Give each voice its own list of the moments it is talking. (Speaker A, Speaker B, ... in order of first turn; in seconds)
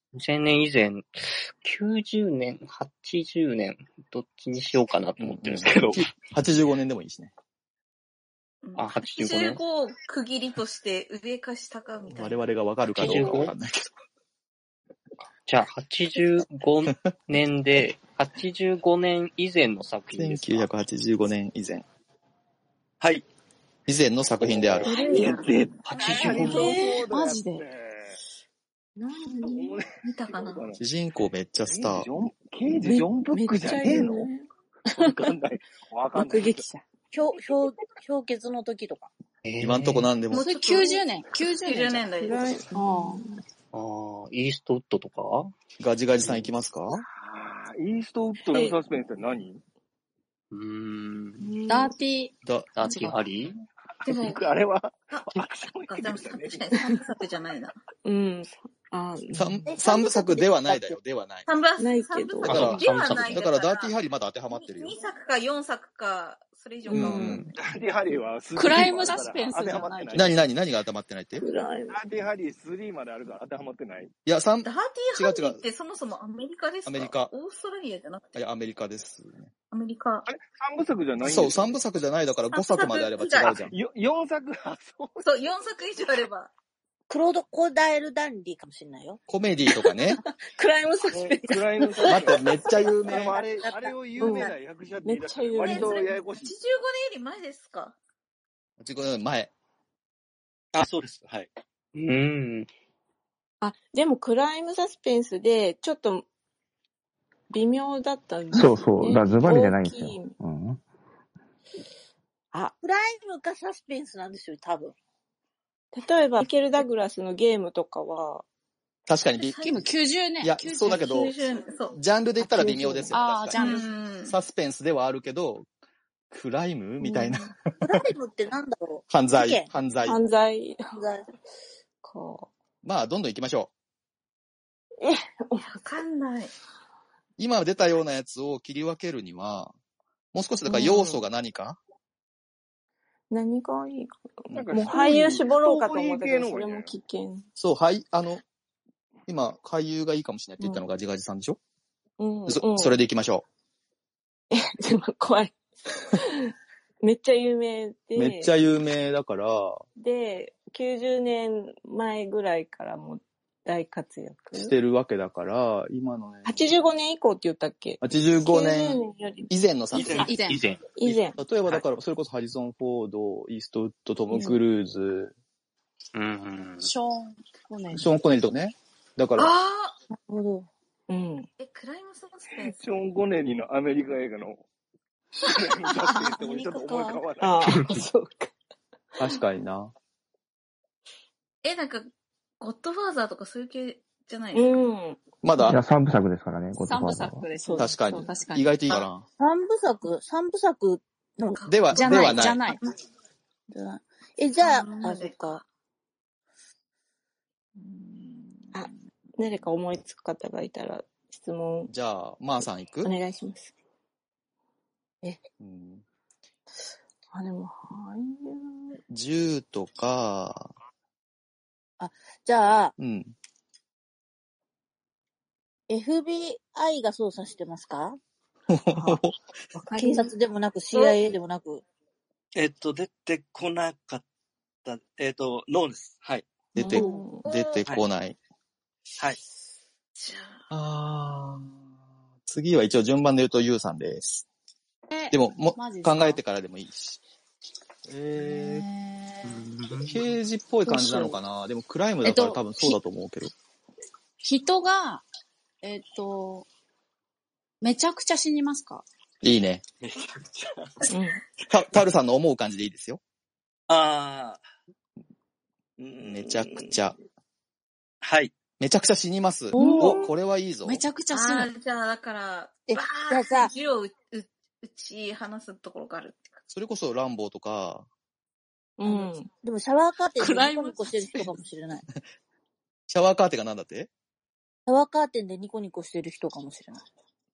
Speaker A: 0.1-6.1, 8.8-9.6, 12.9-13.5, 15.4-20.7, 25.9-26.8, 39.4-40.1, 43.7-45.5, 50.5-51.5, 52.7-53.6, 62.5-63.4, 67.2-67.5, 101.9-102.7, 170.3-170.9, 176.1-176.9, 249.4-250.3
Speaker B: 5.2-7.3, 12.1-13.9, 20.1-21.9, 23.9-24.9, 30.8-32.1, 39.6-40.5, 45.8-47.0, 52.4-52.7, 59.3-61.5, 62.5-64.9, 66.9-67.5, 70.1-71.4, 74.2-75.6, 76.8-77.3, 78.3-79.5, 81.2-83.7, 89.3-90.2, 92.1-93.3, 98.8-99.5, 119.1-121.3, 121.9-125.7, 126.3-128.0, 129.1-130.2, 132.8-133.7, 137.4-139.7, 140.3-141.8, 144.5-145.2, 147.6-148.4, 149.3-151.6, 152.4-153.4, 158.1-159.8, 164.5-166.7, 168.0-170.3, 171.1-175.3, 177.9-179.5, 189.2-189.9, 195.4-195.8, 197.8-199.2, 201.7-202.6, 211.9-213.1, 215.6-216.0, 219.1-220.7, 223.0-223.3, 228.7-229.3, 236.7-238.4, 240.7-241.7, 242.4-244.4, 245.3-247.2, 248.1-248.8, 250.0-253.5, 259.4-259.8, 261.7-263.2, 266.2-267.1, 268.8-271.0, 276.7-278.1, 283.1-284.1
Speaker C: 8.6-12.4, 24.8-26.1, 30.0-30.6, 40.3-42.7, 54.0-54.5, 55.1-57.8, 61.5-63.9, 64.5-67.5, 74.6-78.4, 79.7-80.3, 82.5-83.6, 85.2-86.5, 95.7-98.0, 120.8-122.0, 123.5-124.3, 135.6-136.5, 179.3-180.0, 181.6-182.8, 191.6-194.8, 201.6-202.9, 204.6-205.6, 230.9-231.2, 237.4-237.8, 240.2-240.6, 271.3-276.6
Speaker D: 23.0-23.2, 25.9-26.7, 100.7-101.5, 169.9-170.4, 232.5-234.2, 234.8-236.5, 260.0-261.1, 263.9-264.6, 266.0-266.9, 268.2-268.5
Speaker E: 24.9-28.2, 29.3-30.8, 31.6-34.3, 34.9-36.7, 47.1-49.6, 54.1-56.6, 67.5-70.4, 71.9-74.1, 80.3-81.8, 83.6-85.2, 91.1-96.5, 144.5-146.9, 182.6-184.6, 185.4-187.7
Speaker F: 26.0-27.6, 29.0-29.7, 32.8-35.3, 36.1-36.8, 42.2-43.4, 51.4-51.9, 58.0-59.6, 61.8-62.8, 66.9-67.3, 68.6-69.2, 71.4-72.0, 90.1-92.4, 94.2-94.5, 95.0-96.0, 103.6-106.2, 107.5-110.3, 115.9-118.4, 122.4-123.7, 127.0-127.5, 130.1-130.9, 132.0-132.5, 135.0-135.7, 140.7-141.2, 143.3-147.4, 150.6-150.8, 152.2-153.0, 154.5-158.5, 160.0-164.7, 166.4-169.5, 170.9-171.4, 181.1-181.5, 187.4-188.5, 194.5-195.7, 197.6-198.3, 208.7-211.9, 213.0-213.7, 217.3-219.0, 228.9-229.2, 229.8-230.3, 236.8-237.4, 261.1-261.4, 269.7-270.2, 279.0-279.5
Speaker G: 37.1-39.1, 59.7-60.9, 87.1-89.2, 93.1-94.5, 95.7-96.0, 112.8-114.9, 127.8-129.7, 130.9-131.2, 180.1-180.7, 186.3-187.2, 199.4-202.4, 203.7-205.6, 207.8-208.8, 222.0-222.9, 225.9-228.2, 229.9-231.8, 236.9-237.2, 272.9-273.7, 279.0-282.0, 284.9-287.0
Speaker H: 40.3-42.1, 42.8-43.2, 51.7-52.3, 68.5-70.2, 119.5-121.2, 122.7-123.9, 170.2-170.6, 176.8-178.2, 196.8-199.1, 201.9-202.8, 245.1-246.4, 248.4-249.4, 250.9-251.3, 252.2-252.9, 254.4-255.2, 255.8-256.7, 257.8-259.0, 269.7-270.1, 270.8-271.7, 280.4-281.4
Speaker I: 108.5-110.8, 195.6-197.4